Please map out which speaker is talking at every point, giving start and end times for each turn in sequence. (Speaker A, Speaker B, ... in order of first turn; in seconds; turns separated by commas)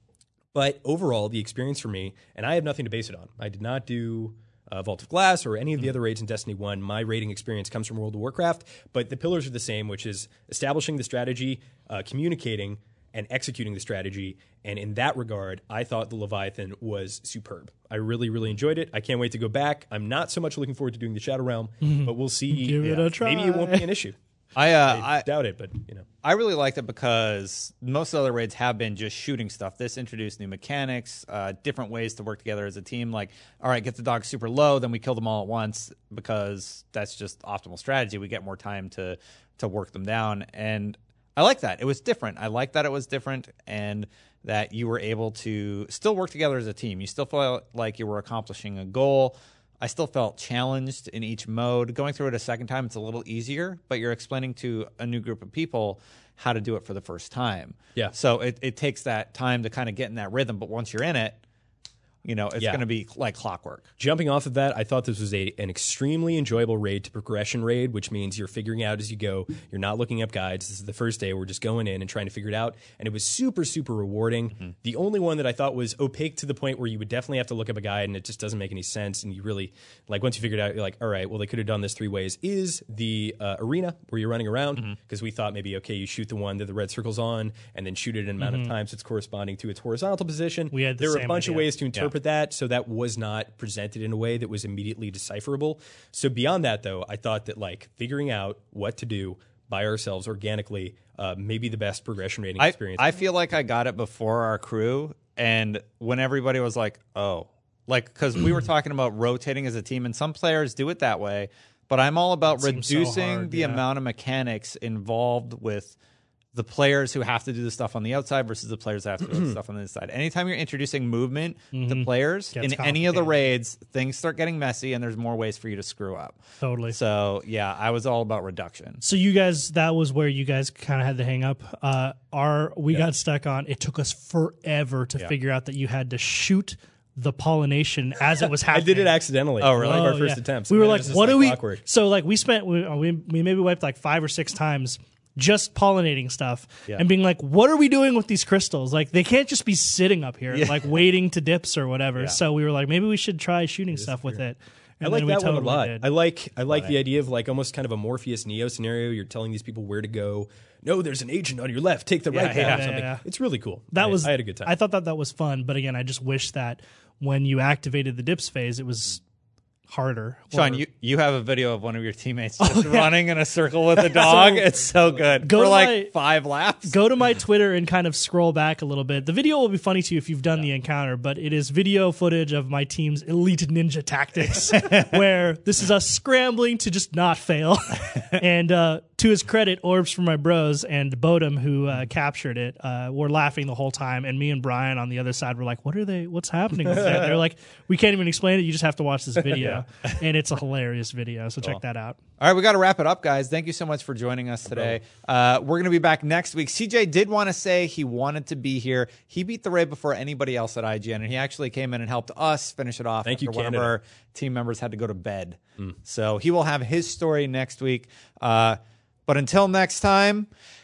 Speaker A: 0.5-24.2, Speaker B: 21.8-23.8, Speaker C: 24.6-25.3, Speaker A: 24.8-26.1, Speaker C: 26.2-61.4, Speaker C: 62.2-63.9, Speaker A: 64.0-103.1, Speaker B: 88.4-88.7, Speaker B: 90.7-91.7, Speaker C: 102.6-116.0, Speaker B: 112.5-113.8, Speaker C: 116.5-126.4, Speaker A: 119.3-119.6, Speaker B: 121.7-123.3, Speaker B: 126.6-127.0, Speaker C: 126.9-129.0, Speaker B: 129.0-139.1, Speaker A: 138.7-141.8, Speaker C: 139.6-140.1, Speaker B: 139.8-156.1, Speaker C: 150.5-150.8, Speaker A: 153.9-154.4, Speaker A: 155.0-164.7, Speaker C: 156.7-156.9, Speaker C: 162.3-162.9, Speaker B: 162.5-163.2, Speaker B: 163.9-169.2, Speaker B: 169.9-170.8, Speaker C: 170.5-177.0, Speaker B: 172.6-173.1, Speaker B: 173.9-174.7, Speaker B: 175.4-176.1, Speaker B: 176.8-202.2, Speaker C: 202.4-220.5, Speaker A: 204.7-205.0, Speaker A: 213.2-213.9